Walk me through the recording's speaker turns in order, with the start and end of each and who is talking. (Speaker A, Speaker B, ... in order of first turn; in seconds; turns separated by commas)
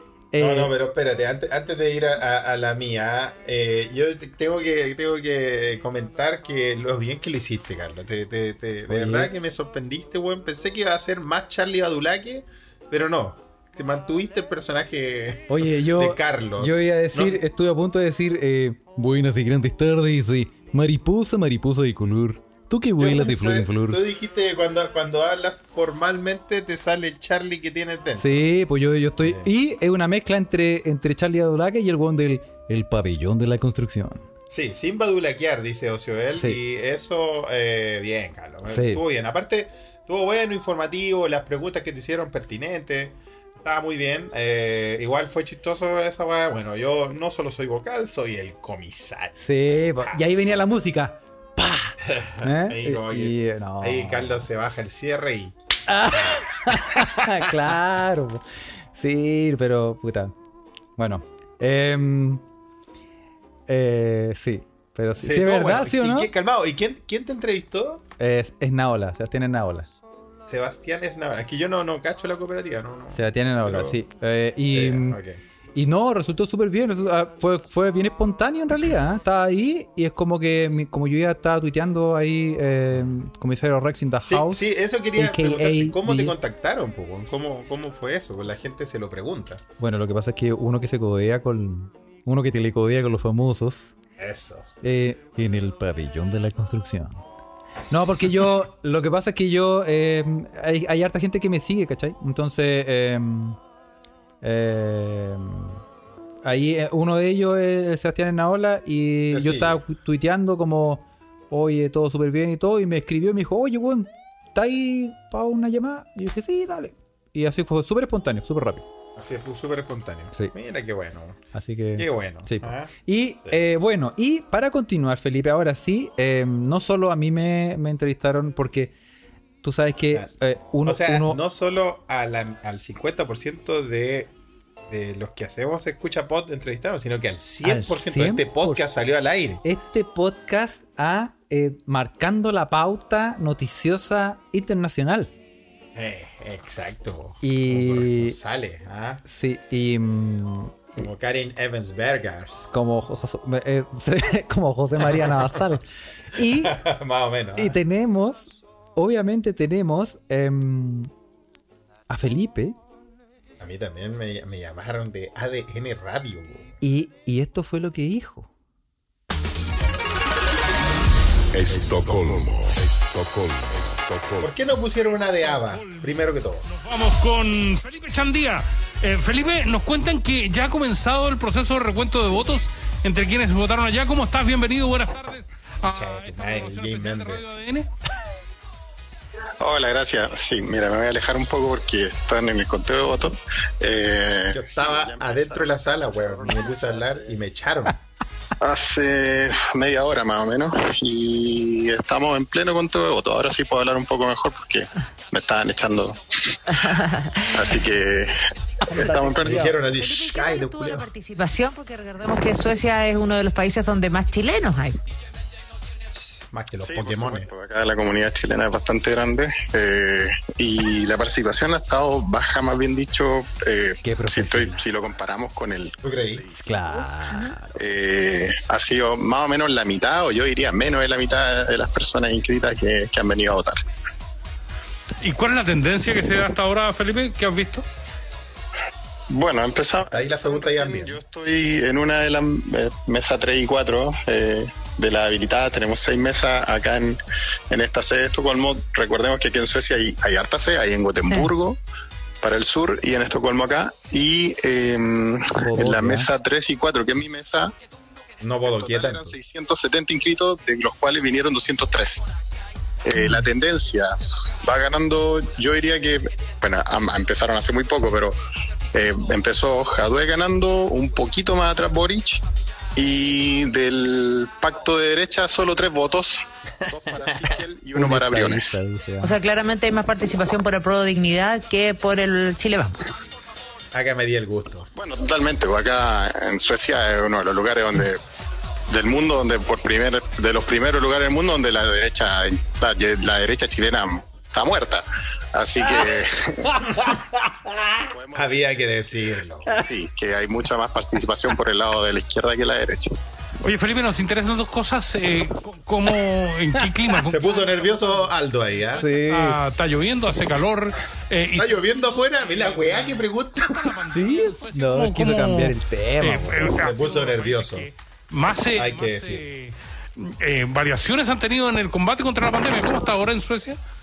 Speaker A: 0.3-0.7, Speaker B: 0.4-17.4, Speaker A: 8.9-9.3, Speaker A: 15.5-24.0, Speaker B: 23.0-28.5, Speaker A: 28.2-34.3, Speaker B: 29.2-29.5, Speaker B: 34.5-49.4, Speaker A: 38.7-39.0, Speaker A: 49.4-54.5, Speaker B: 52.0-55.6, Speaker A: 55.9-60.4, Speaker B: 56.7-57.5, Speaker A: 61.0-62.4, Speaker A: 63.7-66.3, Speaker B: 65.2-68.0, Speaker A: 68.2-69.9, Speaker B: 70.5-74.0, Speaker A: 73.1-75.2, Speaker B: 74.7-75.4, Speaker A: 75.8-86.4, Speaker B: 84.3-89.6, Speaker A: 89.8-93.9, Speaker B: 94.2-94.7, Speaker A: 94.8-97.2, Speaker A: 97.9-103.6, Speaker A: 104.4-105.8, Speaker A: 106.4-118.8, Speaker B: 109.3-109.8, Speaker B: 119.2-121.4, Speaker A: 121.5-128.9, Speaker B: 122.0-123.6, Speaker A: 129.6-131.4, Speaker B: 130.8-134.3, Speaker B: 134.9-139.6, Speaker A: 137.6-138.8, Speaker A: 139.6-145.3, Speaker B: 145.9-149.2, Speaker A: 147.4-148.4, Speaker A: 149.2-150.8, Speaker B: 151.0-152.7, Speaker A: 152.7-156.8, Speaker B: 155.0-155.8, Speaker B: 156.3-157.8, Speaker A: 157.6-161.1, Speaker A: 162.1-162.8, Speaker B: 163.6-166.8, Speaker A: 166.8-168.5, Speaker C: 171.5-174.5, Speaker B: 174.4-176.7, Speaker D: 175.3-187.9, Speaker B: 185.8-187.4, Speaker E: 189.6-197.4, Speaker B: 194.5-198.0, Speaker E: 198.6-206.9, Speaker F: 206.7-207.9, Speaker E: 207.5-209.7, Speaker F: 208.9-215.0, Speaker A: 209.0-209.8, Speaker B: 209.4-211.1, Speaker B: 216.1-217.5, Speaker E: 216.8-227.1, Speaker A: 224.0-224.9, Speaker B: 226.0-226.4, Speaker A: 226.5-227.8, Speaker E: 227.7-233.8, Speaker D: 235.2-237.9, Speaker E: 239.3-247.2, Speaker B: 240.1-241.2, Speaker E: 247.7-251.8, Speaker F: 251.2-251.5, Speaker E: 252.4-257.7, Speaker A: 255.6-256.3, Speaker B: 258.4-259.4, Speaker E: 258.6-262.3, Speaker E: 263.0-268.4, Speaker E: 268.9-272.4, Speaker E: 273.0-278.8, Speaker B: 276.9-277.6, Speaker A: 277.9-279.4, Speaker F: 279.2-283.0, Speaker B: 283.9-284.9, Speaker E: 284.9-288.2, Speaker E: 288.9-296.8, Speaker A: 296.8-297.2, Speaker E: 298.0-298.9, Speaker B: 298.3-299.8, Speaker E: 299.7-303.2, Speaker D: 303.6-323.8, Speaker B: 307.2-309.1, Speaker A: 309.0-309.6, Speaker B: 311.5-314.1, Speaker A: 314.1-316.8, Speaker B: 316.7-317.9, Speaker B: 318.7-319.5